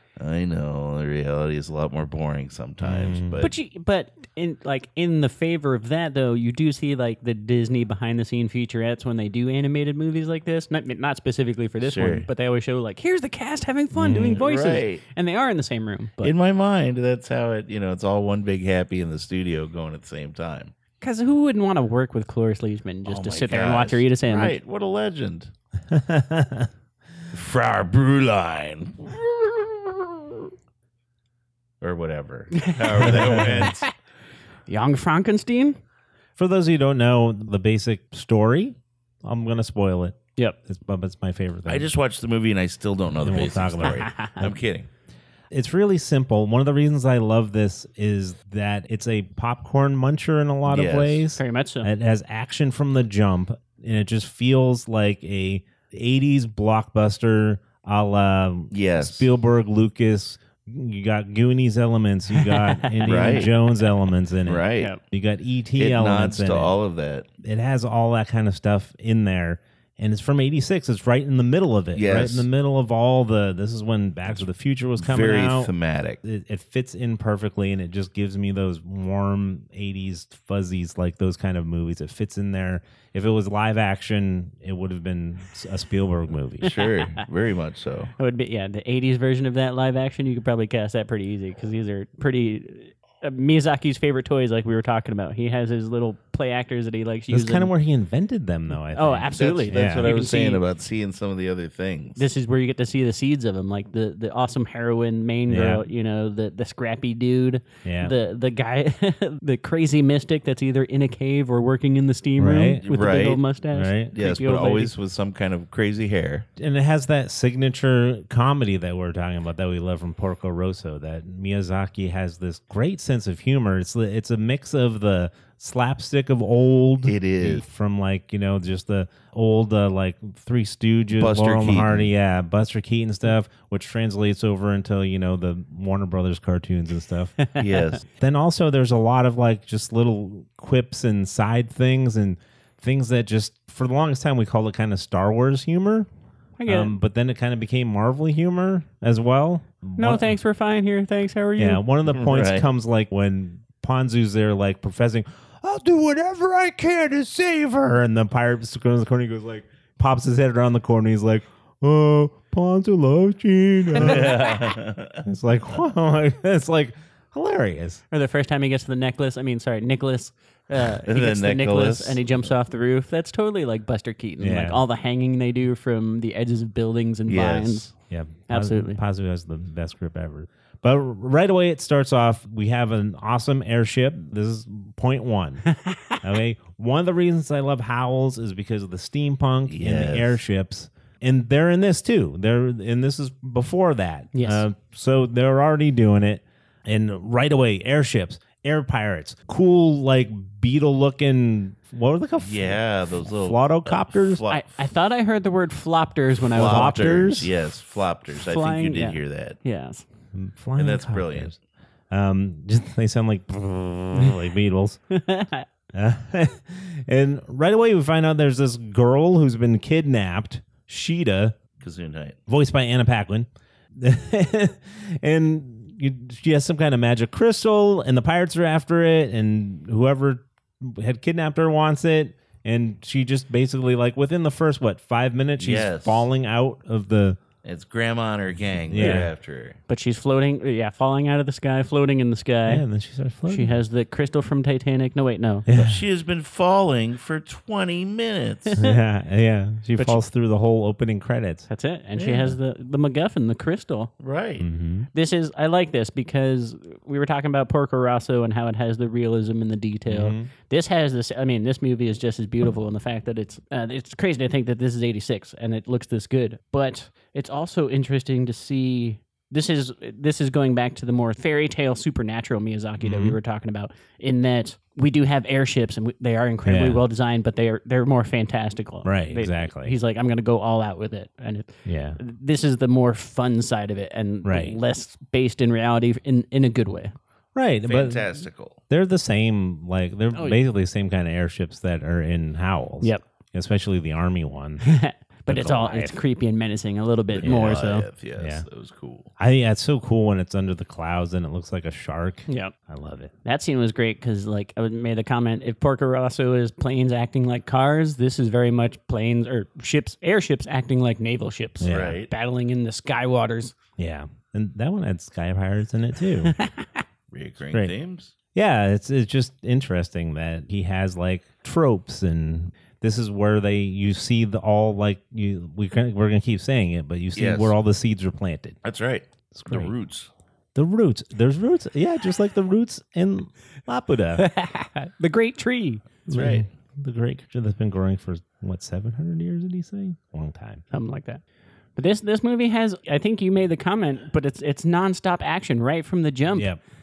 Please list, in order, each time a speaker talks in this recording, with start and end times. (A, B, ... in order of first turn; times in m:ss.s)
0:00.2-0:03.5 A
0:02.8-0:03.4 B
0:03.4-0:16.3 C
0:11.8-0:12.3 A
0:14.0-0:14.4 B
0:14.1-0:15.0 A
0:16.2-0:20.7 A
0:21.0-0:24.6 C
0:23.0-0:25.5 A
0:25.9-0:26.7 B
0:27.3-0:30.2 A
0:31.8-0:33.8 A
0:32.6-0:33.9 C
0:33.2-0:33.5 B
0:34.7-0:35.8 C
0:36.4-0:41.9 B
0:41.6-0:44.9 A
0:43.2-0:44.1 B
0:43.8-0:44.4 C
0:45.5-1:06.7 B
0:50.7-0:51.2 A
0:51.4-0:51.9 C
0:58.7-0:59.3 A
1:02.4-1:03.5 C
1:03.0-1:03.5 A
1:04.4-1:04.9 A
1:05.8-1:07.3 A
1:07.4-1:15.7 B
1:11.9-1:12.5 A
1:15.0-1:16.2 A
1:16.2-1:26.8 B
1:26.6-1:28.1 A
1:28.2-1:37.7 C
1:37.3-1:40.1 B
1:38.9-1:40.6 C
1:39.3-1:42.2 A
1:42.2-1:54.9 C
1:45.5-1:45.8 B
1:47.8-1:48.1 B
1:52.4-1:52.8 B
1:52.8-1:53.4 A
1:53.7-1:54.1 B
1:54.1-1:56.4 A
1:56.6-2:17.4 B
2:07.0-2:07.6 A
2:11.1-2:12.1 A
2:17.4-2:17.9 C
2:17.6-2:18.0 A
2:18.1-2:26.1 B
2:26.6-2:26.9 C
2:26.7-2:30.4 B
2:30.0-2:31.8 C
2:31.6-2:44.5 B
2:32.1-2:32.6 A
2:44.0-2:45.2 A
2:45.2-2:48.0 B
2:48.1-2:57.9 C
2:51.0-2:52.2 A
2:54.4-2:54.8 B
2:57.3-2:57.9 A
2:58.1-3:05.6 B
2:58.5-2:59.0 C
3:05.7-3:06.2 C
3:06.2-3:24.4 B
3:09.7-3:10.4 A
3:14.3-3:14.6 C
3:22.4-3:24.8 A
3:24.5-3:27.3 C
3:26.5-3:29.6 A
3:26.6-3:27.5 B
3:28.3-3:30.0 C
3:30.3-3:31.6 B
3:30.8-3:31.5 A
3:32.1-3:35.0 B
3:35.1-3:35.7 C
3:35.9-3:41.6 B
3:41.8-3:42.4 A
3:42.5-3:57.4 B
3:55.6-3:56.3 A
3:57.6-3:59.8 A
3:58.9-3:59.3 B
3:59.9-4:02.8 C
4:02.7-4:03.8 B
4:03.5-4:05.7 C
4:05.7-4:06.0 B
4:05.7-4:08.8 A
4:08.7-4:08.9 C
4:08.8-4:11.7 B
4:11.7-4:14.1 C
4:12.2-4:12.5 A
4:14.2-4:14.6 A
4:14.6-4:15.1 B
4:15.1-4:47.1 C
4:20.1-4:20.5 B
4:33.0-4:33.4 B
4:36.6-4:37.0 B
4:39.0-4:39.9 B
4:41.8-4:42.2 B
4:44.4-4:44.8 B
4:47.5-4:48.3 B
4:47.8-4:48.8 A
4:48.9-4:54.8 B
4:50.3-4:50.6 C
4:54.8-4:58.1 C
4:55.5-4:56.2 B
4:57.3-4:59.3 A
4:57.4-4:57.8 B
4:58.4-4:58.6 B
4:59.4-5:03.3 B
5:02.5-5:02.7 C
5:03.4-5:13.8 C
5:11.8-5:12.2 B
5:11.8-5:12.3 A
5:14.0-5:16.5 B
5:16.4-5:17.0 C
5:17.3-5:18.3 A
5:18.5-5:28.8 B
5:27.3-5:27.7 A
5:28.8-5:30.3 A
5:29.5-5:29.9 B
5:30.7-5:34.4 B
5:34.4-5:36.0 C
5:36.3-5:36.6 A
5:36.3-5:40.8 B
5:40.9-5:41.4 C
5:42.0-5:46.7 C
5:46.5-5:46.8 B